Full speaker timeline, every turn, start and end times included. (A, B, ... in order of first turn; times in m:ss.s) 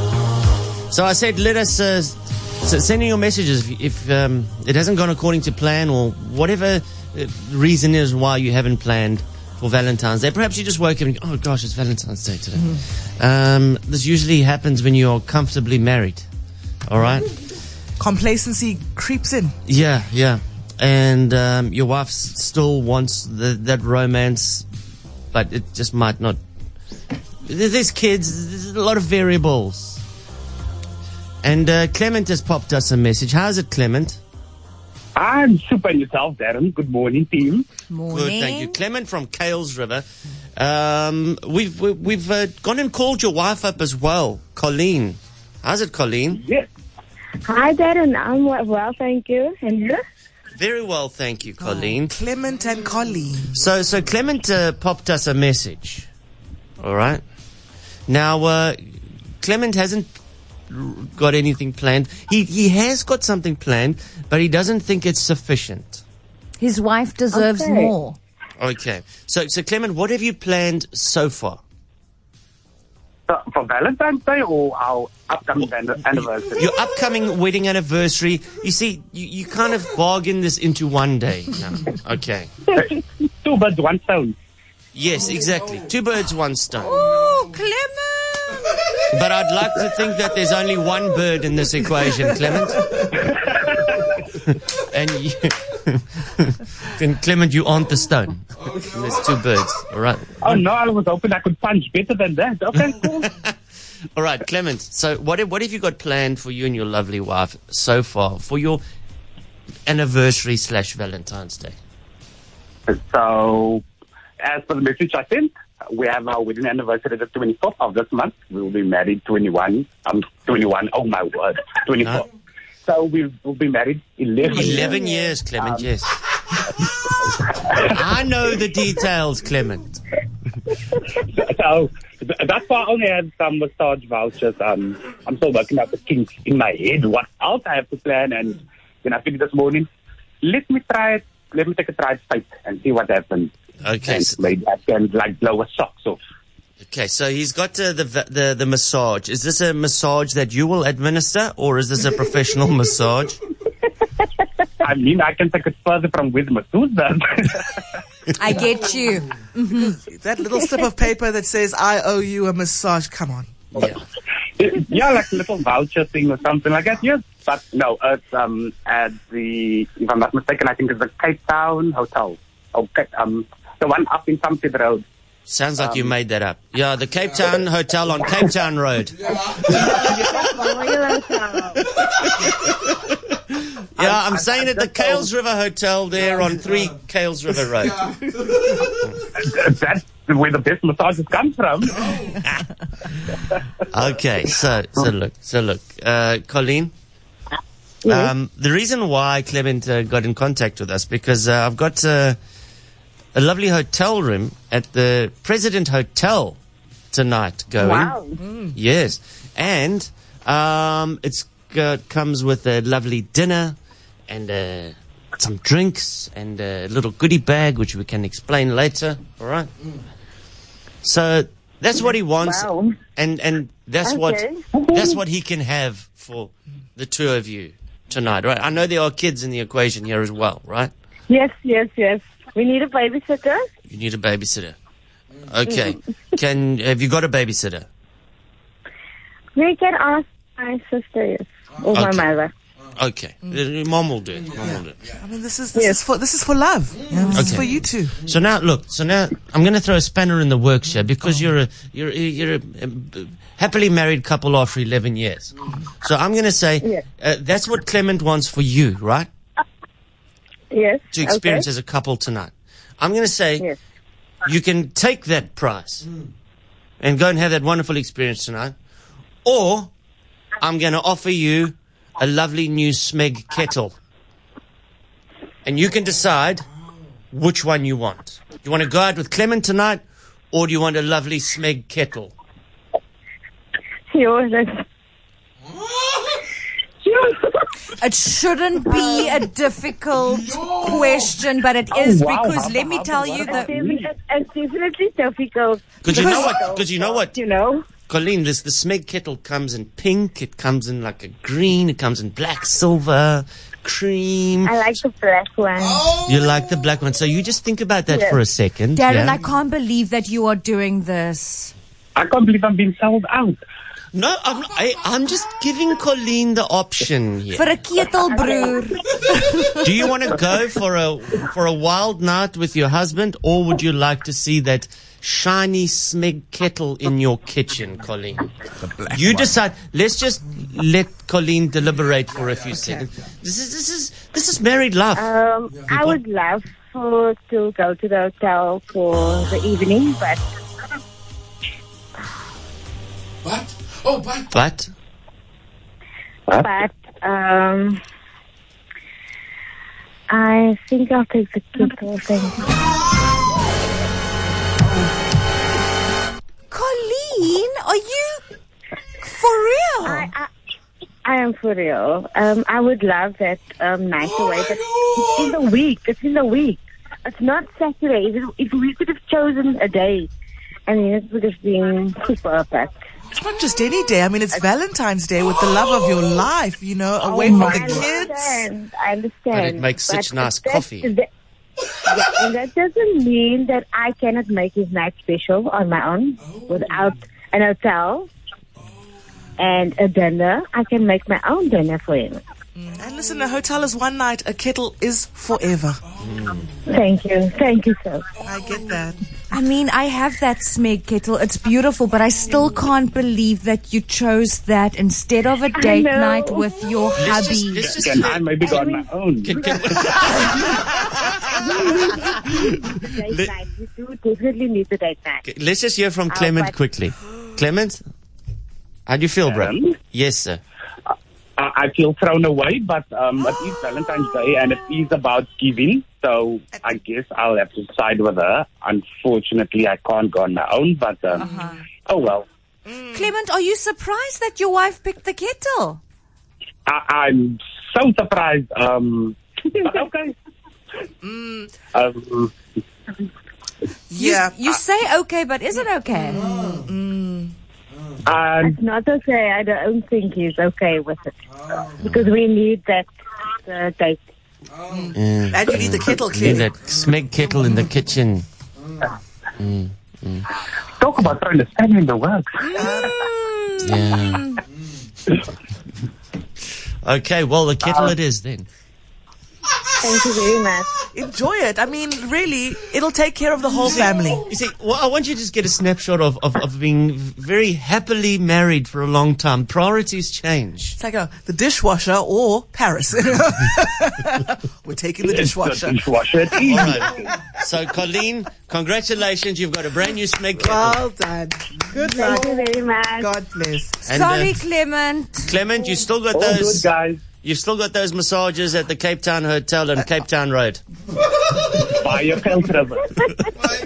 0:00.9-0:16.3 A
0:16.9-0:17.3 A
0:18.0-0:19.6 B
0:19.6-0:24.7 A
0:25.3-0:26.4 A
0:27.4-0:30.0 A
0:31.4-0:34.2 A
0:35.2-0:37.7 C
0:37.9-0:38.8 D
0:38.1-0:40.0 A
0:40.6-0:46.4 A
0:46.3-0:46.7 C
0:47.4-0:50.0 E
0:50.6-0:52.2 A
0:51.6-0:53.6 B
0:53.6-0:56.1 A
0:56.8-0:57.2 A
0:58.1-0:58.8 A
0:59.4-1:00.1 A
1:00.7-1:06.0 A
1:06.6-1:08.2 D
1:07.3-1:07.9 E
1:08.6-1:11.6 A
1:13.3-1:16.6 C
1:16.5-1:22.5 A
1:22.7-1:24.4 C
1:24.9-1:27.0 A
1:26.9-1:28.9 D
1:29.1-1:33.3 A
1:33.2-1:33.6 C
1:34.3-1:40.4 A
1:40.4-1:43.3 C
1:43.2-1:43.5 A
1:44.2-1:48.8 A
1:49.9-1:51.8 A
1:52.9-1:53.8 C
1:54.4-2:02.3 C
2:02.8-2:05.9 C
2:04.5-2:06.2 A
2:07.6-2:10.0 A
2:11.2-2:19.9 C
2:20.4-2:23.5 C
2:23.8-2:24.4 A
2:24.0-2:26.2 C
2:26.8-2:33.4 A
2:34.8-2:37.8 C
2:38.4-2:40.0 D
2:39.8-2:43.5 B
2:43.7-2:44.0 A
2:44.6-2:55.0 C
2:55.5-3:00.4 A
2:55.8-2:56.1 C
2:59.7-3:01.8 E
3:02.0-3:08.1 A
3:04.0-3:05.3 C
3:09.4-3:12.0 C
3:13.8-3:16.9 A
3:18.0-3:18.3 E
3:18.1-3:22.4 A
3:23.4-3:26.6 A
3:27.1-3:28.2 A
3:27.8-3:28.4 E
3:28.7-3:33.8 A
3:34.3-3:39.7 A
3:41.0-3:50.9 A
3:42.4-3:43.0 E
3:44.0-3:45.0 E
3:51.3-3:53.6 E
3:53.9-3:54.8 A
3:55.4-3:57.9 A
3:59.6-4:02.5 E
4:01.9-4:02.3 A
4:02.9-4:05.0 A
4:04.6-4:08.2 B
4:07.2-4:07.6 D
4:07.3-4:19.3 A
4:20.7-4:21.7 E
4:21.1-4:23.7 A
4:24.4-4:26.1 A
4:27.0-4:28.8 A
4:29.4-4:29.9 A
4:30.6-4:34.0 A
4:35.6-4:36.6 A
4:37.3-4:42.3 A
4:44.1-4:44.8 E
4:47.0-4:47.4 E
4:47.9-4:53.7 D
4:48.8-4:49.4 E
4:51.9-4:54.1 C
4:53.4-4:57.8 E
4:56.0-4:57.4 A
4:56.1-4:56.6 D
4:58.1-5:04.9 A
5:04.7-5:06.2 E
5:06.1-5:09.4 A
5:08.1-5:08.4 E
5:09.0-5:11.7 D
5:12.2-5:13.6 C
5:14.1-5:17.6 A
5:17.5-5:19.8 D
5:19.7-5:28.5 A
5:29.1-5:35.3 A
5:35.2-5:40.4 E
5:35.9-5:36.2 A
5:44.5-5:44.9 A
5:46.6-5:48.0 E
5:50.3-5:52.8 E
5:56.7-5:58.4 D
5:59.2-6:00.3 D
6:00.0-6:00.5 E
6:01.2-6:10.3 E
6:10.9-6:13.0 E
6:13.3-6:18.6 B
6:17.2-6:21.3 E
6:19.5-6:21.1 A
6:22.1-6:28.3 E
6:29.6-6:32.4 E
6:32.8-6:36.0 B
6:36.2-6:36.7 A
6:36.9-6:38.2 E
6:38.4-6:39.2 B
6:39.5-6:47.9 D
6:45.8-6:46.6 E
6:47.2-6:48.5 A
6:47.8-6:49.6 C
6:48.6-6:49.1 E
6:49.4-6:53.5 A
6:51.6-6:55.4 E
6:55.4-6:58.0 A
6:56.3-6:56.7 E
6:59.1-7:00.6 A
6:59.4-7:00.0 C
7:01.6-7:11.5 C
7:11.4-7:11.8 D
7:11.4-7:11.8 B
7:12.1-7:12.5 C
7:12.9-7:13.3 B
7:13.1-7:16.0 D
7:16.8-7:20.3 C
7:21.2-7:21.7 B
7:21.9-7:22.5 C
7:24.1-7:24.6 B
7:24.2-7:26.5 D
7:26.3-7:27.5 B
7:28.3-7:28.8 C
7:28.6-7:33.1 E
7:33.7-7:34.2 E
7:34.9-7:36.7 B
7:35.1-7:38.4 A
7:39.6-7:40.5 A
7:41.0-7:42.8 C
7:42.7-7:44.6 D
7:42.8-7:43.2 B
7:43.8-7:44.5 A
7:47.0-7:48.7 A
7:50.0-7:50.9 E
7:51.1-7:54.5 B
7:53.8-8:01.0 A
8:01.0-8:06.0 B
8:05.2-8:07.3 C
8:06.6-8:11.0 A
8:10.6-8:12.7 B
8:12.1-8:13.3 E
8:13.2-8:14.0 B
8:14.1-8:14.6 A
8:14.1-8:15.5 D
8:15.4-8:16.9 A
8:16.3-8:17.2 C
8:17.4-8:20.8 A
8:21.9-8:23.1 C